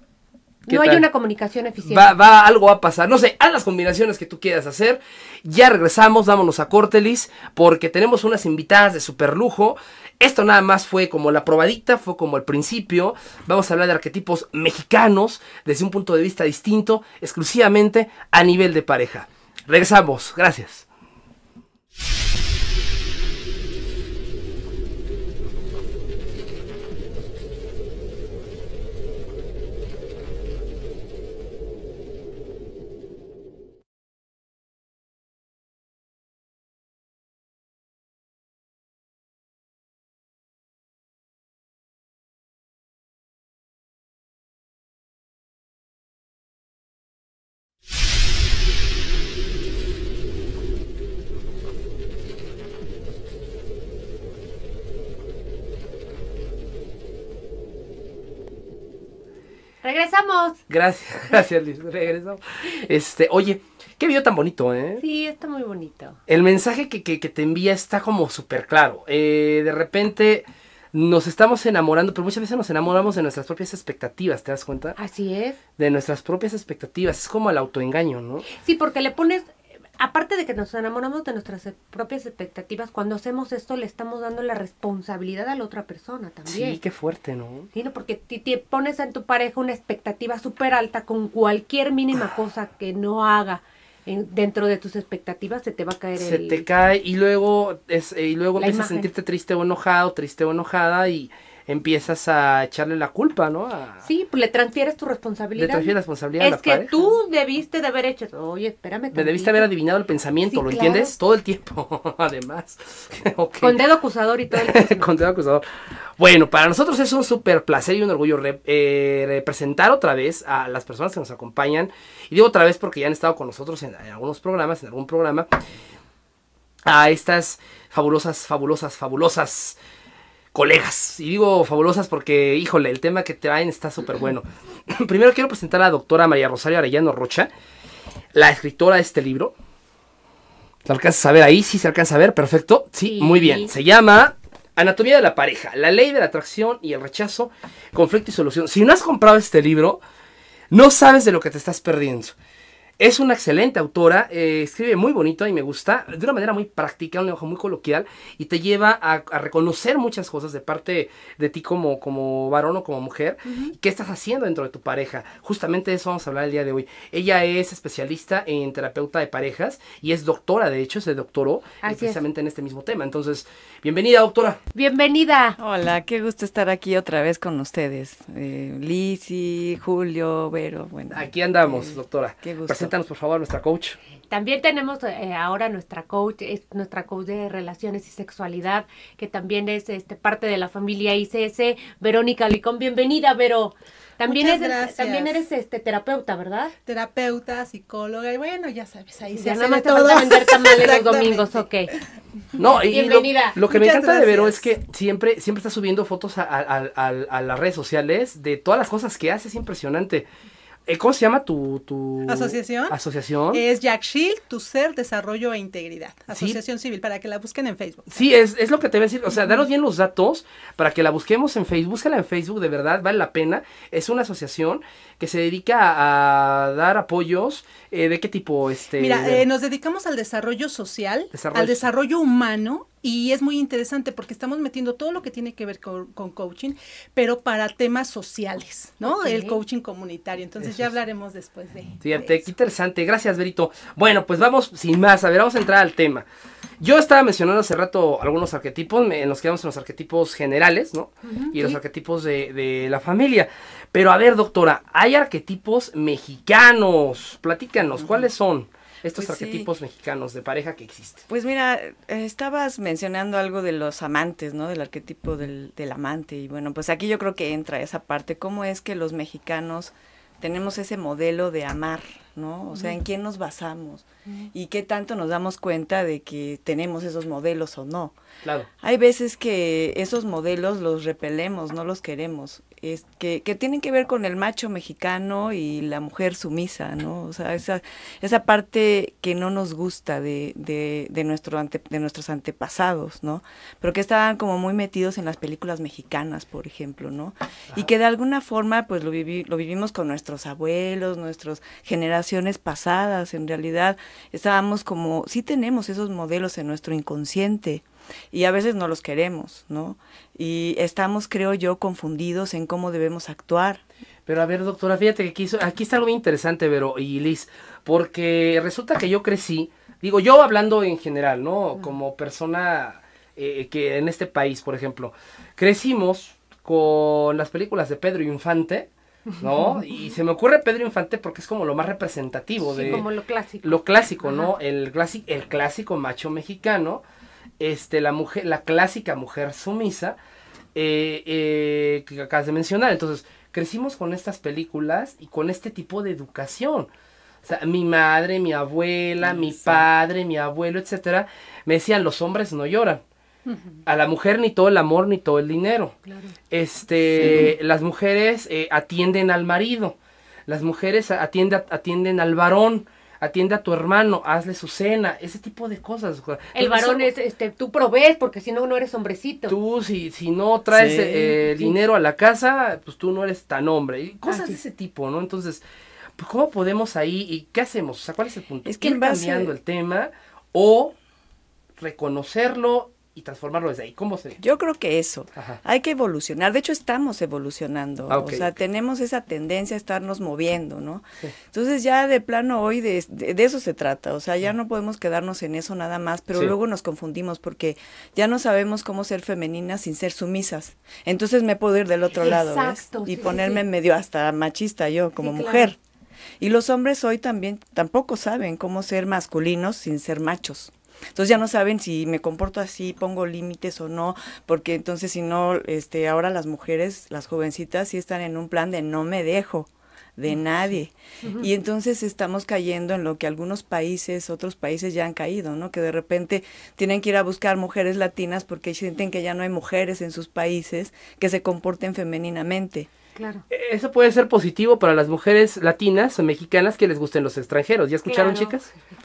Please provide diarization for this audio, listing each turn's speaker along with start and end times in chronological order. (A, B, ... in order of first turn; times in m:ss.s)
0:00.6-0:02.1 A
0:00.7-0:01.0 B
0:01.8-0:20.8 B
0:59.8-1:00.6 A
1:00.7-1:05.0 B
1:05.0-1:06.2 A
1:06.3-1:15.0 B
1:15.0-1:15.6 A
1:15.8-1:18.4 B
1:18.5-1:26.8 A
1:26.5-1:27.7 B
1:27.7-1:36.6 A
1:36.2-1:44.0 B
1:38.6-1:39.1 A
1:44.0-1:49.7 A
1:45.6-1:47.1 B
1:49.1-1:53.8 B
1:50.5-1:51.1 A
1:53.6-1:55.1 A
1:54.5-2:05.5 B
2:06.8-2:09.8 B
2:10.5-2:17.5 B
2:18.3-2:19.5 B
2:20.8-2:30.0 B
2:23.0-2:23.7 A
2:30.7-2:32.3 B
2:33.0-2:54.6 B
2:51.8-2:52.2 A
2:54.7-2:55.6 A
2:55.6-3:02.9 C
3:01.1-3:04.0 B
3:04.3-3:16.7 A
3:14.2-3:15.4 D
3:16.8-3:21.6 D
3:19.3-3:21.9 A
3:22.6-3:30.3 B
3:22.9-3:23.6 A
3:23.6-3:24.6 D
3:30.8-3:33.6 B
3:32.3-3:33.0 D
3:33.5-3:38.1 D
3:36.3-3:36.6 B
3:38.1-3:49.4 B
3:49.0-4:02.4 D
3:51.3-3:51.9 B
3:59.0-3:59.6 A
4:00.6-4:00.9 B
4:02.0-4:06.2 B
4:06.8-4:21.2 B
4:11.3-4:11.8 A
4:18.0-4:18.2 C
4:19.2-4:19.7 C
4:21.3-4:38.1 C
4:38.4-4:38.7 B
4:38.8-5:13.8 C
5:14.3-5:33.0 B
5:29.3-5:30.1 A
5:32.7-5:34.5 A
5:33.6-5:37.0 B
5:37.6-5:40.2 B
5:40.7-5:46.9 B
5:47.4-5:53.0 B
5:53.8-5:55.9 B
5:56.1-5:56.3 A
5:56.5-6:00.0 B
5:57.2-5:57.5 C
6:00.5-6:07.1 B
6:06.5-6:09.5 A
6:09.5-6:15.6 B
6:10.7-6:11.5 C
6:14.2-6:14.6 A
6:16.2-6:20.9 B
6:18.6-6:19.5 C
6:21.8-6:24.4 B
6:24.4-6:45.8 C
6:28.1-6:28.5 B
6:42.1-6:43.6 A
6:45.2-6:45.7 A
6:46.4-7:12.9 C
7:13.2-7:13.4 A
7:13.5-7:18.7 B
7:18.0-7:18.5 A